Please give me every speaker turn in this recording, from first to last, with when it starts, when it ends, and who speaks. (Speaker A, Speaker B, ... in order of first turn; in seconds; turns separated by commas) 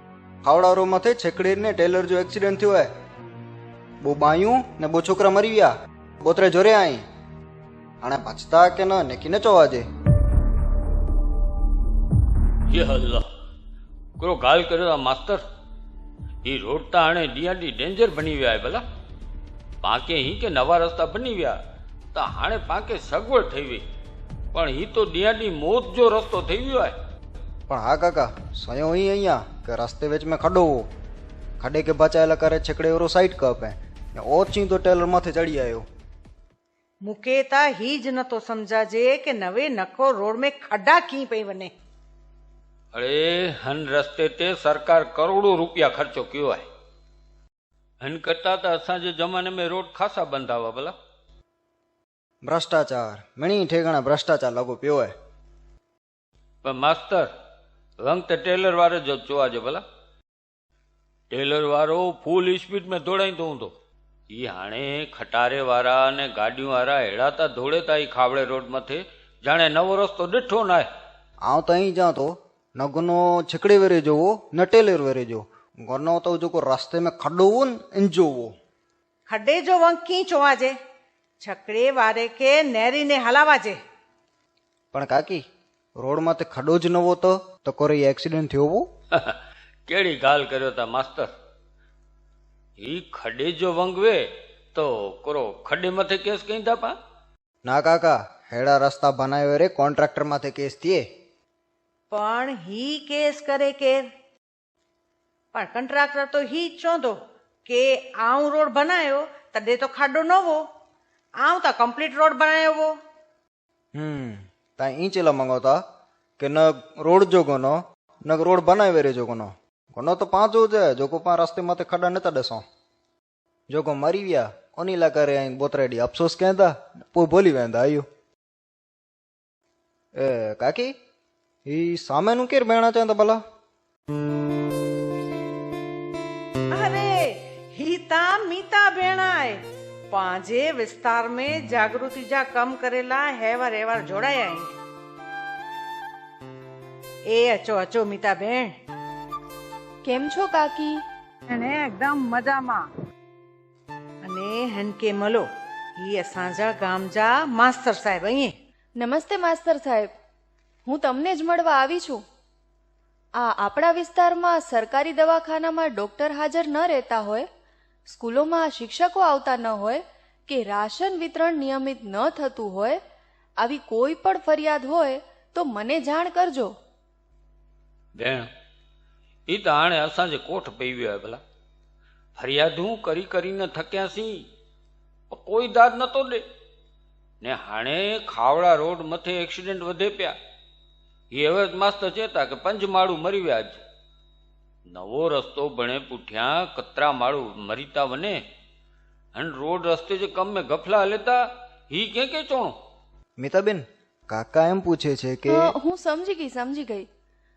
Speaker A: 0.4-2.9, Speaker A: 4.0-7.0, Speaker A: 8.0-9.8, Speaker B: 12.7-13.2, Speaker B: 14.2-15.4, Speaker B: 16.4-18.8, Speaker B: 19.8-21.6, Speaker B: 22.1-23.8, Speaker B: 24.5-26.9, Speaker A: 27.7-30.9, Speaker A: 31.6-35.9, Speaker C: 37.0-41.7, Speaker B: 42.9-46.6, Speaker B: 48.0-50.9, Speaker A: 52.4-55.1, Speaker B: 56.6-57.3, Speaker B: 58.0-59.8, Speaker B: 61.3-63.7, Speaker B: 64.3-70.9, Speaker A: 71.4-78.5, Speaker C: 79.3-80.8, Speaker C: 81.4-83.8, Speaker A: 84.9-85.4, Speaker A: 86.0-88.9, Speaker B: 89.8-91.3, Speaker B: 92.8-97.0, Speaker A: 97.6-101.0, Speaker C: 102.1-104.0, Speaker C: 105.5-110.6, Speaker C: 111.4-112.9, Speaker A: 113.9-115.8, Speaker A: 116.4-122.6, Speaker A: 123.7-128.1, Speaker A: 130.1-130.9, Speaker A: 131.7-133.4, Speaker C: 136.7-144.7, Speaker C: 147.3-148.7, Speaker D: 150.0-151.0, Speaker C: 151.5-152.9, Speaker C: 154.2-158.5, Speaker D: 159.0-160.1, Speaker D: 160.8-162.2, Speaker D: 163.4-167.4, Speaker D: 168.1-173.0, Speaker D: 173.6-176.7, Speaker B: 178.2-178.5, Speaker B: 179.5-181.4, Speaker B: 182.4-184.5, Speaker B: 185.3-186.4, Speaker B: 187.4-190.4, Speaker B: 191.3-193.8, Speaker B: 194.9-198.4, Speaker B: 199.3-202.7, Speaker A: 203.4-205.7, Speaker D: 205.5-207.1